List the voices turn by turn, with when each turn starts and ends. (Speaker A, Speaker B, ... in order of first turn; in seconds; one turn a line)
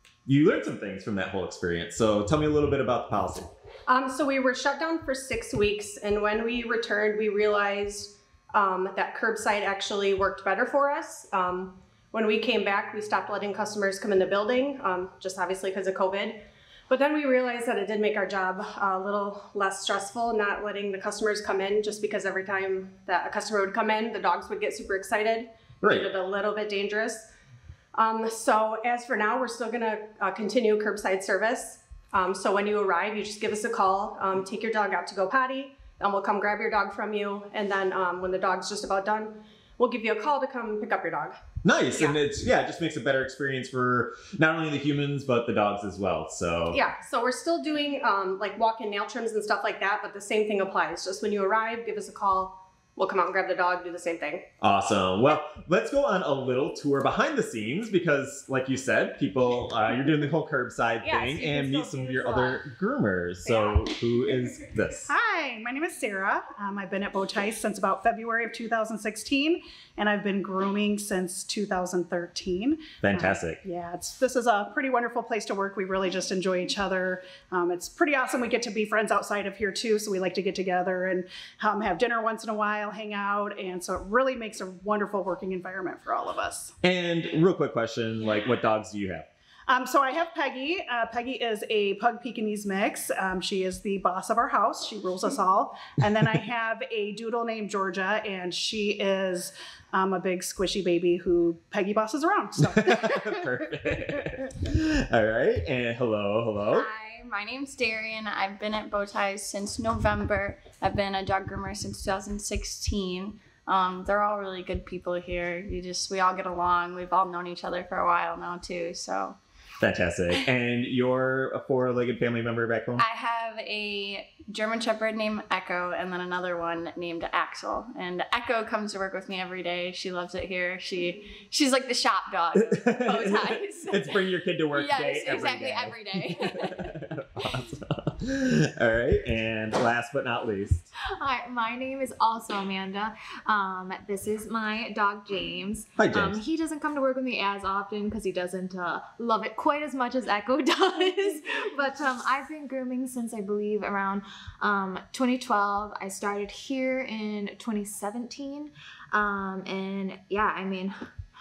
Speaker A: 0.3-3.5
Speaker B: 3.9-27.3
Speaker A: 25.8-26.1
Speaker B: 27.9-41.4
Speaker A: 41.6-46.8
Speaker B: 41.9-42.2
Speaker B: 46.7-54.5
Speaker A: 54.6-65.1
Speaker B: 61.0-62.6
Speaker C: 65.1-86.7
Speaker A: 73.0-73.6
Speaker A: 86.8-89.3
Speaker C: 89.7-103.5
Speaker A: 102.8-106.9
Speaker D: 106.7-119.4
Speaker A: 119.8-123.0
Speaker D: 123.0-136.9
Speaker A: 132.8-140.9
Speaker E: 141.2-161.0
Speaker A: 146.0-146.4